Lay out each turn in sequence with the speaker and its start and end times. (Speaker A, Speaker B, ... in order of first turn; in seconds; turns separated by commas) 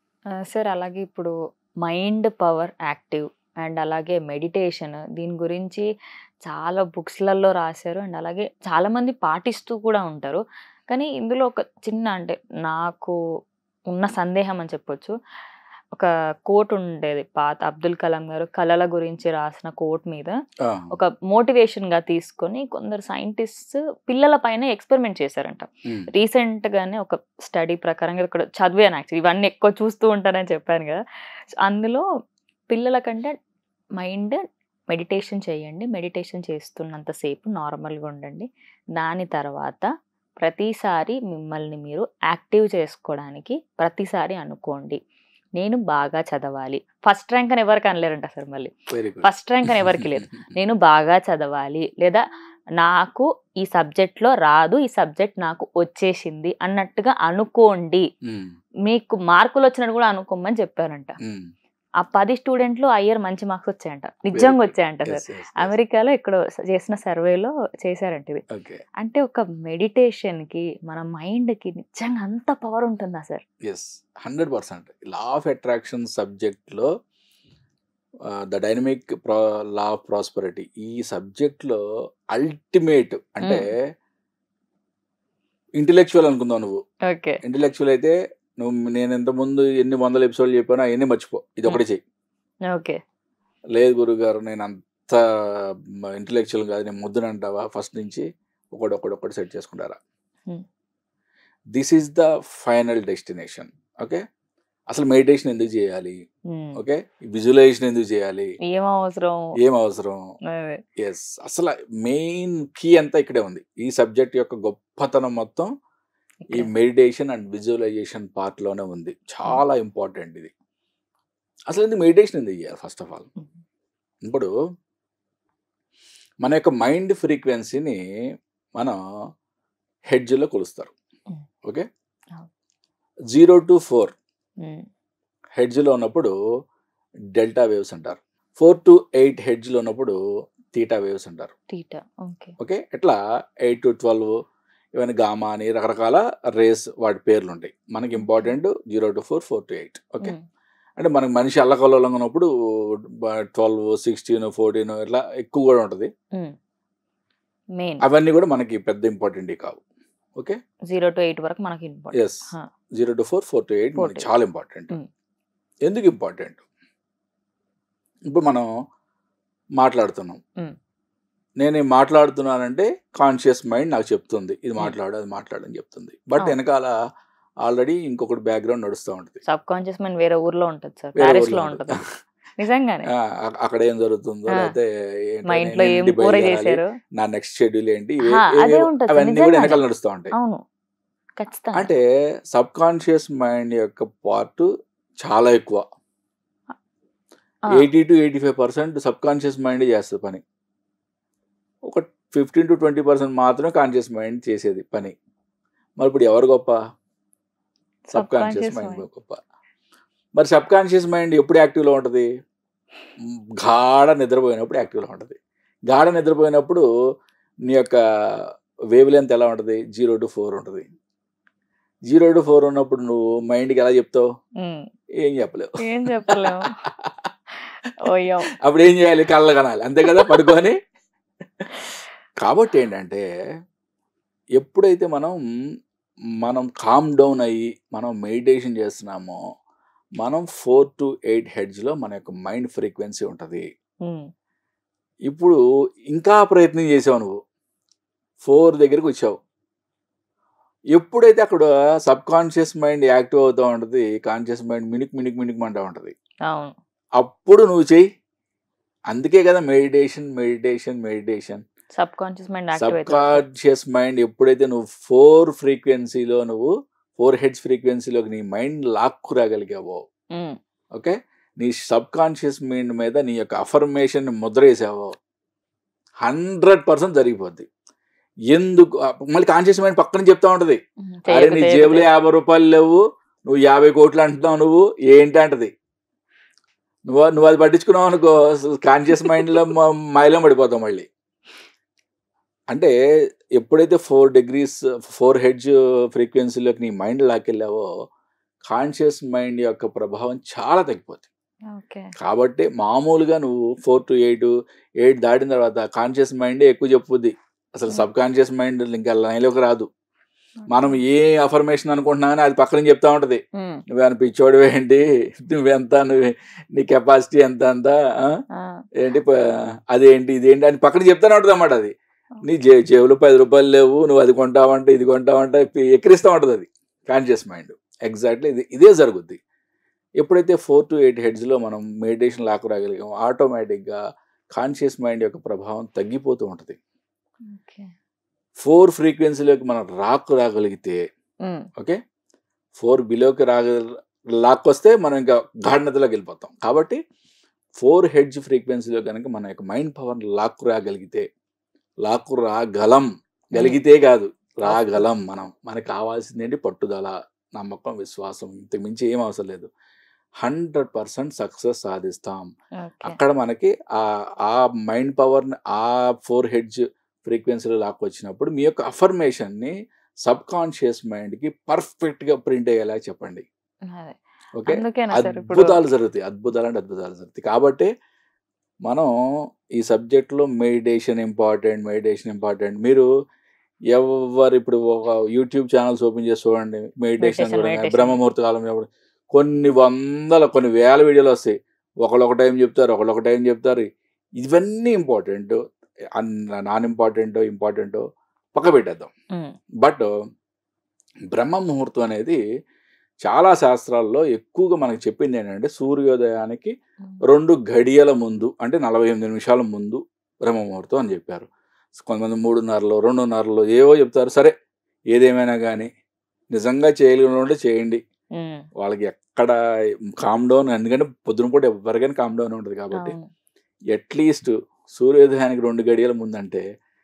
Speaker A: 0.4-5.8, Speaker A: 6.5-13.2, Speaker A: 13.9-15.1, Speaker A: 15.9-20.3, Speaker B: 20.6-20.9, Speaker A: 20.9-31.0, Speaker A: 31.6-32.0, Speaker A: 32.7-33.3, Speaker A: 34.0-34.4, Speaker A: 34.9-39.9, Speaker A: 40.4-45.0, Speaker A: 45.6-48.7, Speaker B: 48.9-50.2, Speaker A: 49.2-52.2, Speaker A: 52.8-58.0, Speaker B: 58.3-58.5, Speaker A: 58.9-61.1, Speaker A: 62.0-68.4, Speaker B: 64.3-65.7, Speaker B: 68.5-68.8, Speaker A: 69.0-73.4, Speaker B: 73.7-76.9, Speaker B: 78.5-81.8, Speaker B: 82.3-83.7, Speaker B: 85.8-86.8, Speaker A: 87.1-87.4, Speaker B: 87.4-92.0, Speaker A: 92.7-93.0, Speaker B: 93.7-100.0, Speaker B: 101.7-104.2, Speaker B: 104.9-106.2, Speaker A: 106.5-106.8, Speaker B: 106.8-108.5, Speaker A: 108.6-109.4, Speaker B: 109.6-110.2, Speaker A: 110.5-110.8, Speaker B: 111.0-115.7, Speaker A: 116.4-116.7, Speaker B: 116.5-120.5, Speaker B: 121.7-123.3, Speaker B: 124.2-124.5, Speaker B: 126.4-128.0, Speaker B: 130.1-130.9, Speaker B: 133.3-134.1, Speaker B: 135.6-136.3, Speaker B: 137.4-140.2, Speaker B: 140.7-141.5, Speaker A: 141.7-142.5, Speaker B: 142.6-144.3, Speaker B: 144.9-150.3, Speaker A: 148.2-148.5, Speaker B: 151.0-152.5, Speaker B: 153.5-156.1, Speaker A: 157.8-158.0, Speaker B: 158.0-159.8, Speaker A: 160.9-162.6, Speaker B: 162.1-162.4, Speaker B: 163.0-165.0, Speaker A: 163.9-164.3, Speaker B: 165.8-166.6, Speaker B: 168.3-168.7, Speaker B: 169.8-170.4, Speaker B: 171.6-176.9, Speaker B: 177.7-179.4, Speaker A: 179.5-182.0, Speaker B: 181.2-182.0, Speaker A: 182.6-183.1, Speaker B: 183.1-190.3, Speaker A: 185.5-186.9, Speaker A: 188.3-189.8, Speaker A: 190.3-190.6, Speaker A: 191.4-191.9, Speaker B: 191.7-192.0, Speaker B: 192.5-194.7, Speaker B: 195.2-195.8, Speaker B: 197.7-200.4, Speaker B: 201.9-205.1, Speaker B: 206.0-206.8, Speaker A: 208.1-209.0, Speaker B: 208.1-209.4, Speaker B: 210.4-212.3, Speaker B: 213.6-215.4, Speaker B: 215.9-216.8, Speaker B: 217.7-218.0, Speaker B: 218.9-220.9, Speaker B: 222.1-224.2, Speaker B: 225.2-225.7, Speaker A: 225.8-226.7, Speaker B: 226.3-227.1, Speaker A: 228.1-228.5, Speaker B: 228.6-230.8, Speaker A: 230.1-230.4, Speaker B: 232.4-233.2, Speaker B: 234.6-235.3, Speaker B: 236.4-239.4, Speaker B: 240.2-243.6, Speaker B: 245.3-245.6, Speaker B: 246.1-247.3, Speaker B: 248.4-249.3, Speaker B: 250.9-256.1, Speaker A: 256.5-256.7, Speaker B: 257.2-258.0, Speaker B: 259.1-261.6, Speaker A: 262.0-263.4, Speaker B: 262.8-270.0, Speaker B: 270.9-275.1, Speaker B: 276.2-277.6, Speaker B: 278.5-285.7, Speaker A: 281.1-282.1, Speaker B: 287.1-291.1, Speaker B: 293.6-297.9, Speaker B: 298.7-301.2, Speaker A: 301.7-302.1, Speaker B: 302.2-309.9, Speaker A: 310.6-311.0, Speaker B: 310.7-313.4, Speaker A: 313.6-313.8, Speaker B: 313.9-318.3, Speaker A: 318.5-318.8, Speaker B: 319.0-319.4, Speaker B: 319.9-321.9, Speaker B: 322.4-329.4, Speaker B: 330.2-334.0, Speaker B: 334.6-336.8, Speaker A: 337.5-337.9, Speaker B: 338.6-341.0, Speaker B: 342.8-343.8, Speaker B: 344.4-347.0, Speaker B: 347.8-351.2, Speaker B: 352.0-359.7, Speaker A: 354.6-355.1, Speaker B: 360.4-362.5, Speaker A: 362.8-363.2, Speaker B: 363.0-369.7, Speaker B: 370.2-373.4, Speaker A: 373.9-375.8, Speaker B: 374.6-377.9, Speaker B: 379.8-383.1, Speaker B: 383.9-393.9, Speaker A: 387.2-388.2, Speaker B: 394.4-395.6, Speaker B: 396.2-398.0, Speaker B: 398.6-399.1, Speaker B: 399.8-400.1, Speaker B: 401.3-402.4, Speaker B: 403.2-406.7, Speaker B: 407.2-411.5, Speaker B: 412.0-414.5, Speaker B: 415.1-415.9, Speaker B: 416.5-418.0, Speaker A: 418.4-418.6, Speaker B: 418.8-419.5, Speaker B: 420.2-423.2, Speaker A: 422.9-423.2, Speaker B: 423.9-426.6